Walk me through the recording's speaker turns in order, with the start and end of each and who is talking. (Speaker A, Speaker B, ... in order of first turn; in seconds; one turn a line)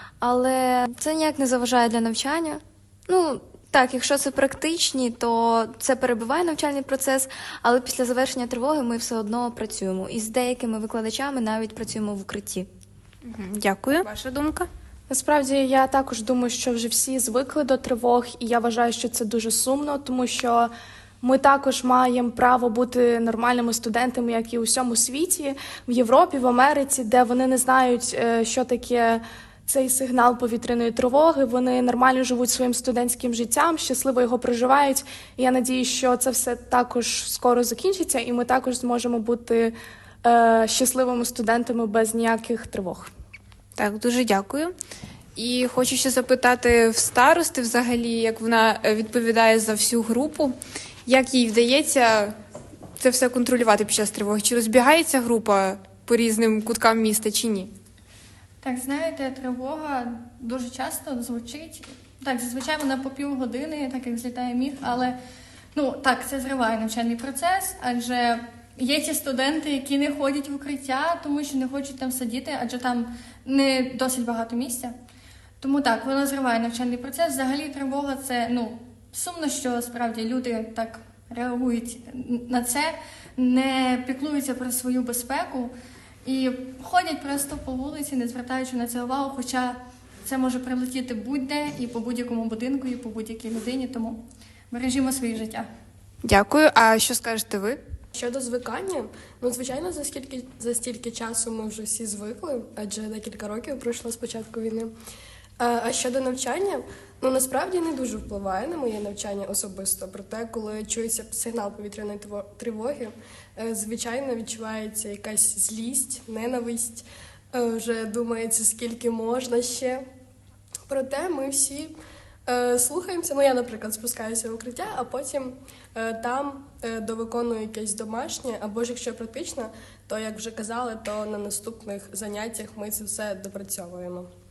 Speaker A: 0.2-12.7
Speaker B: 13.2-14.7
Speaker C: 15.1-20.7
Speaker C: 21.2-43.1
Speaker B: 43.8-44.7
Speaker B: 45.4-50.5
Speaker B: 51.0-52.4
Speaker B: 53.0-57.7
Speaker D: 58.6-65.2
Speaker D: 65.7-74.9
Speaker D: 75.6-85.7
Speaker D: 86.2-95.7
Speaker B: 96.2-97.8
Speaker E: 98.1-104.9
Speaker E: 105.6-120.0
Speaker E: 120.9-121.9
Speaker E: 122.5-134.3